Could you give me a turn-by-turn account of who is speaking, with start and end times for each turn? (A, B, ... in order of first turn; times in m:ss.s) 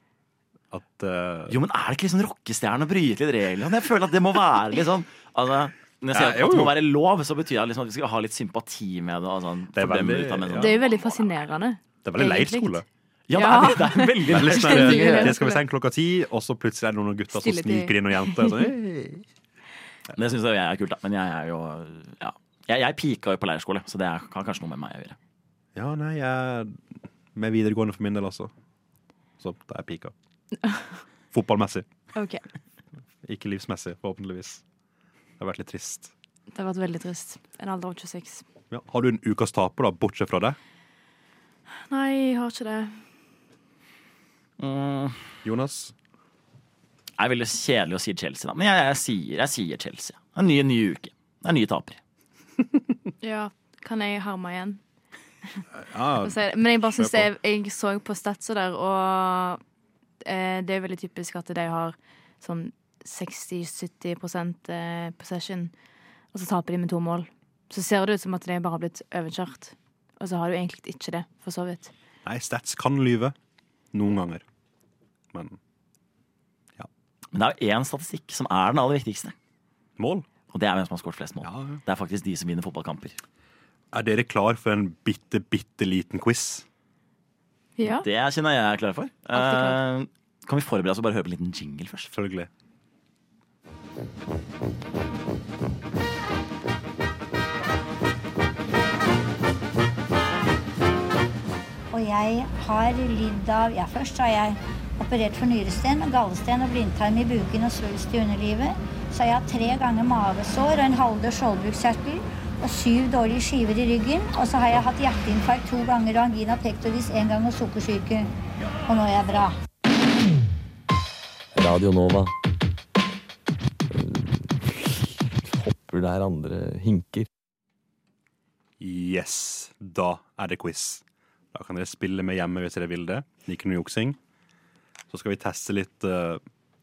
0:00.7-0:01.6 A
0:01.5-0:11.4 B
0:06.1-0:06.8 A
0:09.8-0:10.7 A
0:10.6-0:12.8 C
0:12.0-0:12.8 A
0:13.3-0:15.3 B
0:13.4-0:15.6 C
0:14.3-0:19.2 A
0:17.3-0:18.7 C
0:20.2-0:25.2 B
0:25.8-0:28.5 A
0:29.4-0:30.1 A
0:30.6-0:31.0 C
0:31.3-0:31.9 A
0:32.1-0:32.4 C
0:33.2-0:34.6 A
0:35.4-0:36.1 A
0:36.5-0:38.4 C
0:38.7-0:40.6 A
0:41.8-0:43.0 C
0:44.6-0:45.3 B
0:45.4-0:45.9 A
0:47.2-0:52.0 B
0:53.2-0:54.8 C
0:55.7-0:56.4 A
0:56.2-0:59.6 C
0:56.9-0:57.3 A
1:00.2-1:05.7 C
1:06.3-1:11.9 C
1:12.2-1:13.4 A
1:13.9-1:14.4 A
1:15.3-1:15.6 A
1:17.3-1:19.4 B
1:20.0-1:20.3 A
1:20.5-1:23.2 B
1:21.4-1:21.8 A
1:23.9-1:26.6 A
1:27.8-1:28.1 C
1:27.8-1:32.1 B
1:29.3-1:29.8 C
1:32.1-1:32.5 A
1:41.9-1:58.3 D
1:58.9-1:59.6 D
2:01.6-2:02.3 E
2:03.9-2:07.3 E
2:08.8-2:14.2 A
2:15.1-2:16.4 A